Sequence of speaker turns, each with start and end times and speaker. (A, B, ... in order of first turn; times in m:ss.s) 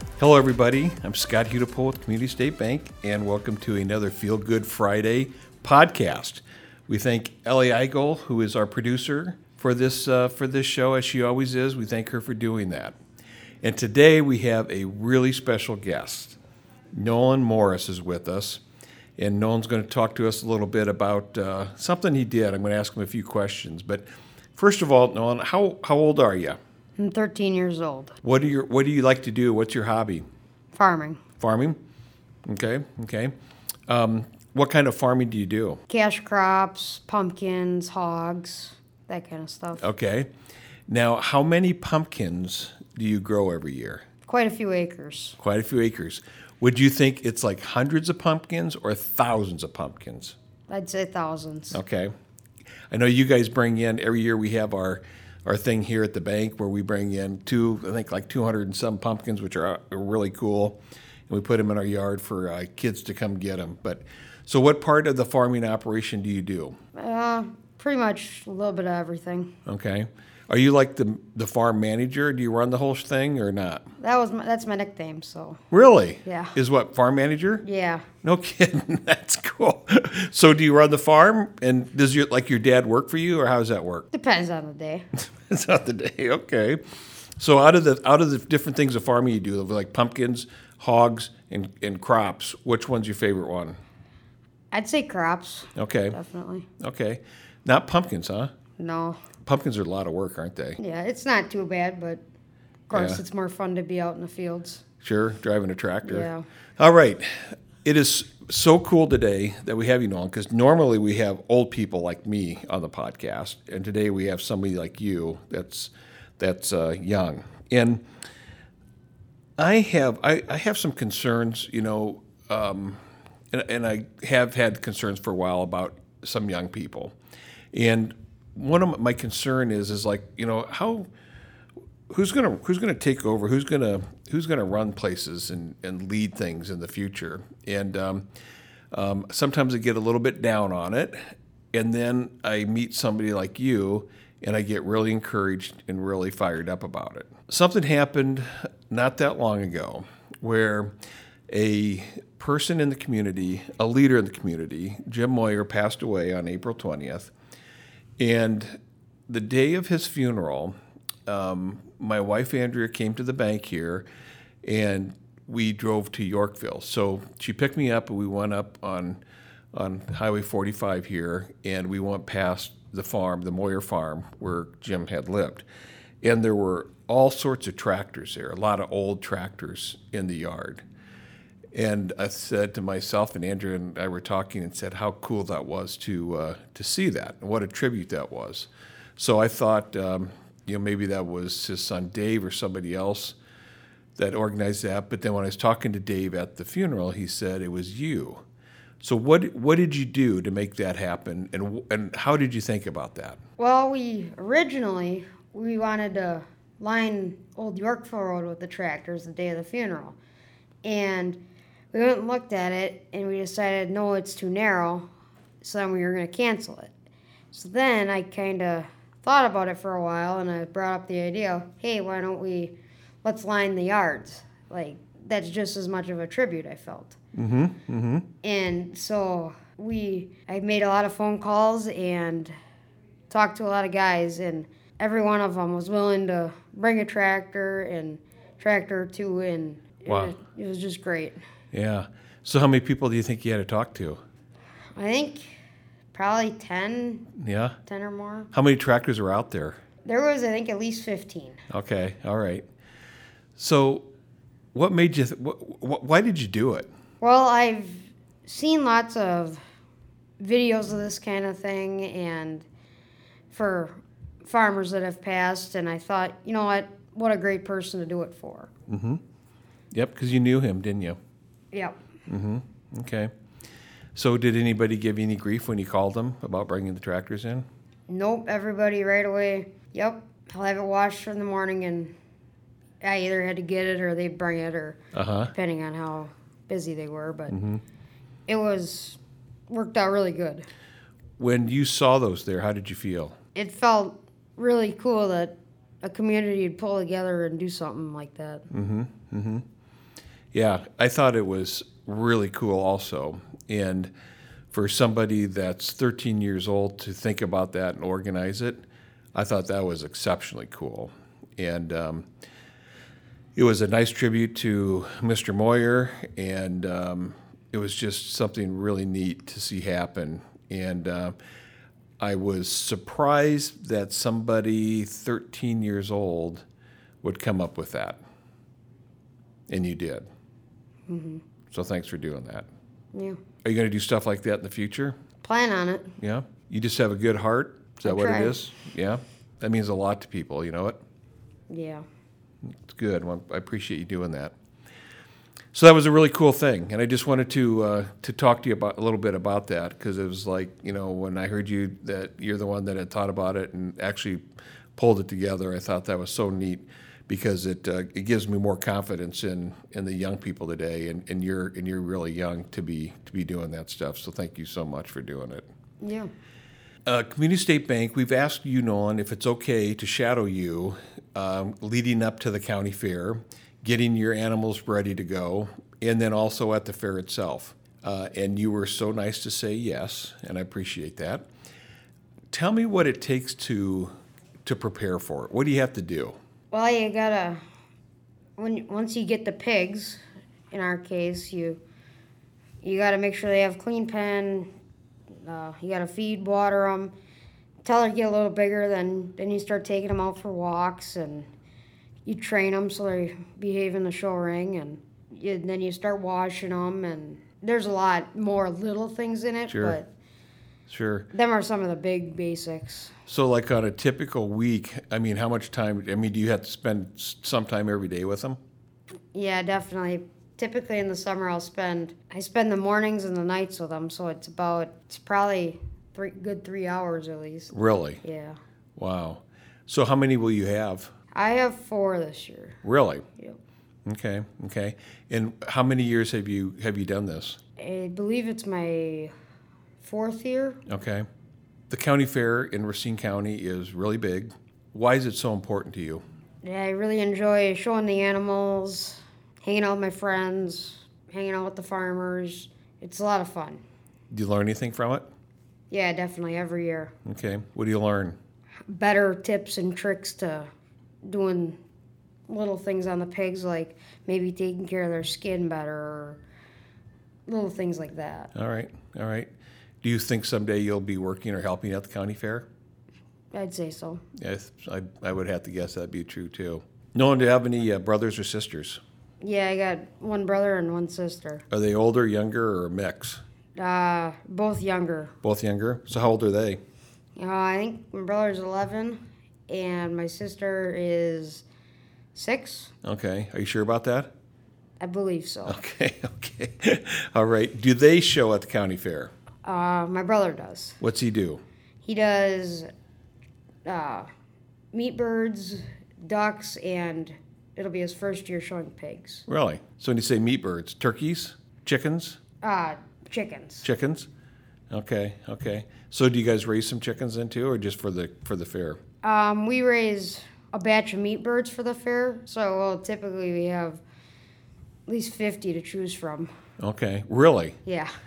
0:00.2-0:13.0 A
0:13.6-0:16.4 A
0:16.9-0:18.6 A
0:19.2-0:26.6 A
0:27.0-0:28.2 B
0:28.2-0:30.2 A
0:30.7-0:31.2 B
0:31.4-0:31.8 A
0:32.4-0:33.3 A
0:33.9-0:35.8 A
0:35.9-0:39.8 B
0:39.8-0:40.3 A
0:40.9-0:44.0 A
0:44.2-0:45.4 B
0:45.4-0:50.4 A
0:50.7-0:51.8 B
0:51.7-0:52.1 A
0:52.9-1:06.8 A
1:06.9-1:09.6 B
1:09.7-1:13.9 A
1:14.0-1:15.6 B
1:15.7-1:17.6 A
1:16.2-1:16.6 B
1:17.6-1:18.1 B
1:18.2-1:24.0 A
1:24.1-1:25.1 B
1:25.3-1:26.8 A
1:27.4-1:33.8 A
1:34.7-1:36.7 B
1:35.8-1:36.2 A
1:36.8-1:38.5 A
1:38.8-1:39.2 B
1:39.4-1:40.8 A
1:40.8-1:42.2 B
1:42.9-1:44.8 B
1:42.9-1:43.2 A
1:45.0-1:58.0 A
1:46.0-1:46.4 B
1:59.6-2:03.0 A
2:03.5-2:07.1 A
2:07.7-2:11.1 A
2:12.1-2:18.2 A
2:18.9-2:21.2 A
2:21.7-2:30.9 A
2:31.5-2:37.3 A
2:38.2-2:38.8 A
2:39.3-2:40.8 A
2:41.2-2:44.1 A
2:44.6-2:49.2 A
2:49.7-2:55.6 A
2:56.2-3:00.8 A
3:01.7-3:13.4 A
3:14.2-3:18.4 A
3:19.0-3:23.4 A
3:23.6-3:30.2 B
3:30.8-3:31.4 B
3:31.9-3:35.1 B
3:35.6-3:36.9 B
3:37.5-3:47.2 B
3:47.3-3:48.2 A
3:48.4-3:52.5 B
3:53.3-4:01.4 B
4:00.1-4:00.3 A
4:01.7-4:04.2 A
4:04.9-4:05.5 B
4:06.1-4:07.3 B
4:07.4-4:07.8 A
4:07.8-4:08.5 B
4:08.5-4:09.8 A
4:10.0-4:11.6 B
4:11.7-4:12.6 A
4:13.6-4:14.1 A
4:14.7-4:16.9 A
4:17.2-4:19.6 B
4:20.4-4:22.7 B
4:23.5-4:28.7 B
4:28.9-4:29.2 A
4:29.9-4:31.2 A
4:32.3-4:33.3 A
4:34.1-4:37.6 A
4:38.1-4:42.1 B
4:43.0-4:45.0 B
4:45.1-4:45.5 A
4:45.5-4:47.6 B
4:47.5-4:47.8 A
4:48.5-4:50.7 B
4:51.4-4:53.4 A
4:53.5-4:58.7 B
4:58.7-4:59.6 A
5:00.5-5:04.1 A
5:04.7-5:08.8 A
5:09.3-5:12.2 A
5:13.5-5:21.3 A
5:22.2-5:26.6 A
5:27.2-5:28.2 A
5:29.7-5:30.3 A
5:31.1-5:31.4 B
5:31.7-5:32.7 A
5:33.1-5:33.4 B
5:33.6-5:35.2 A
5:35.4-5:36.1 B
5:36.2-5:41.0 A
5:38.0-5:38.6 B
5:41.7-5:42.0 B
5:42.6-5:44.5 A
5:45.7-5:54.4 A
5:55.0-6:05.7 A
6:06.0-6:06.3 B
6:07.1-6:21.4 A
6:22.5-6:24.1 A
6:24.6-6:26.4 A
6:26.7-6:27.6 B
6:28.6-6:30.2 B
6:30.7-6:31.8 B
6:32.8-6:34.7 B
6:35.4-6:37.1 B
6:37.8-6:41.5 B
6:42.2-6:50.1 B
6:49.7-6:50.0 A
6:50.9-6:51.3 A
6:51.3-6:53.2 B
6:53.3-6:58.6 A
6:59.3-7:08.6 B
7:07.7-7:08.2 A
7:09.0-7:11.1 A
7:11.3-7:12.8 B
7:12.8-7:13.2 A
7:14.1-7:17.6 A
7:17.8-7:19.3 B
7:20.0-7:20.8 B
7:20.9-7:21.2 A
7:21.9-7:26.2 A
7:26.6-7:33.8 B
7:34.3-7:35.2 A
7:35.9-7:37.1 B
7:37.2-7:38.4 A
7:38.9-7:40.7 B
7:41.2-7:41.8 B
7:42.5-7:46.4 B
7:47.5-7:48.5 B
7:48.5-7:49.5 A
7:50.0-7:52.7 A
7:53.5-7:54.2 B
7:54.4-7:59.0 A
7:59.4-8:01.6 B
8:01.7-8:03.4 A
8:03.8-8:05.3 B
8:05.4-8:06.8 A
8:07.4-8:11.6 B
8:12.3-8:12.9 B
8:13.0-8:14.3 A
8:15.0-8:15.8 B
8:15.7-8:19.3 A
8:19.6-8:21.0 B
8:21.0-8:21.6 A
8:22.0-8:22.9 B
8:23.8-8:24.3 B
8:24.9-8:29.4 B
8:29.5-8:32.4 A
8:32.6-8:33.9 B
8:33.8-8:34.3 A
8:34.9-8:39.0 A
8:39.2-8:44.0 B
8:45.1-8:46.5 B
8:46.8-8:47.8 A
8:47.8-8:48.1 B